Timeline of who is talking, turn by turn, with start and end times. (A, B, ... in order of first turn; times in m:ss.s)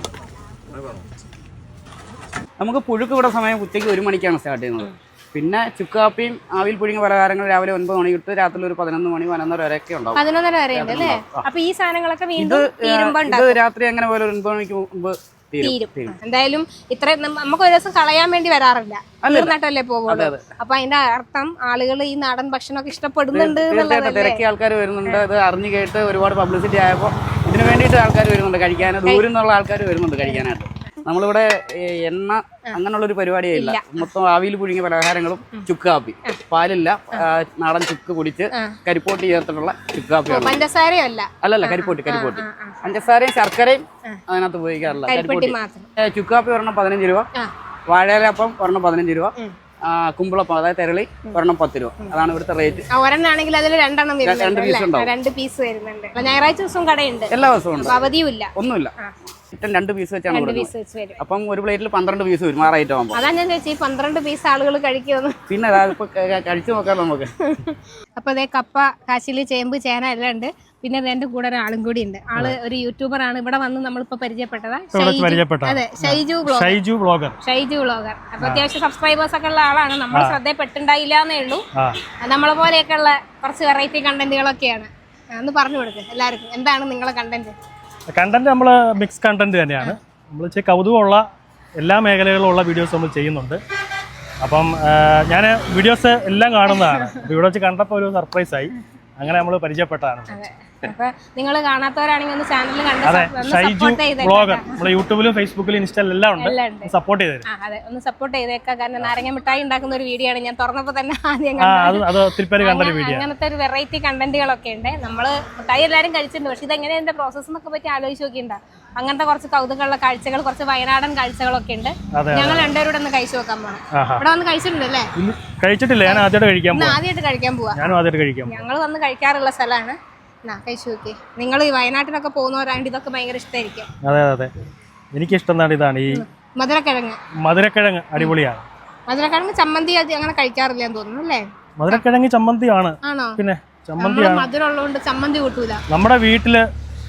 0:02.6-0:10.2 A
0:10.2-0:13.6 B
0:10.7-0:11.4 A
0:12.4-0:16.2 A
0:15.6-0:24.4 B
0:19.2-0:19.5 A
0:20.1-0:20.4 A
0:23.3-0:40.6 A
0:33.5-0:34.1 B
0:40.3-0:42.8 B
0:41.4-0:47.3 A
0:45.1-0:45.9 B
0:47.9-0:49.3 A
0:49.8-0:52.8 A
0:52.9-0:59.1 B
0:54.2-0:55.1 A
0:57.3-0:57.9 A
0:58.6-0:58.9 A
0:59.5-1:03.2 A
1:00.3-1:01.2 B
1:03.1-1:05.9 B
1:05.5-1:07.3 A
1:07.4-1:16.8 B
1:14.9-1:17.4 C
1:17.4-1:21.6 B
1:18.4-1:18.7 C
1:20.1-1:20.4 C
1:22.2-1:27.5 B
1:28.1-1:31.2 C
1:31.8-1:33.6 C
1:34.4-1:40.4 C
1:36.7-1:37.2 B
1:40.3-1:44.8 B
1:43.0-1:47.5 C
1:46.4-1:46.9 B
1:47.5-2:05.1 B
1:51.6-1:53.3 C
2:02.1-2:02.7 C
2:03.9-2:04.2 C
2:05.2-2:07.0 C
2:06.0-2:07.9 B
2:07.7-2:08.6 C
2:08.5-2:13.9 B
2:14.0-2:14.5 C
2:15.1-2:16.2 C
2:16.1-2:17.2 B
2:17.4-2:18.6 C
2:19.1-2:22.0 B
2:21.8-2:24.5 C
2:23.0-2:23.4 B
2:24.0-2:25.8 B
2:25.9-2:26.7 C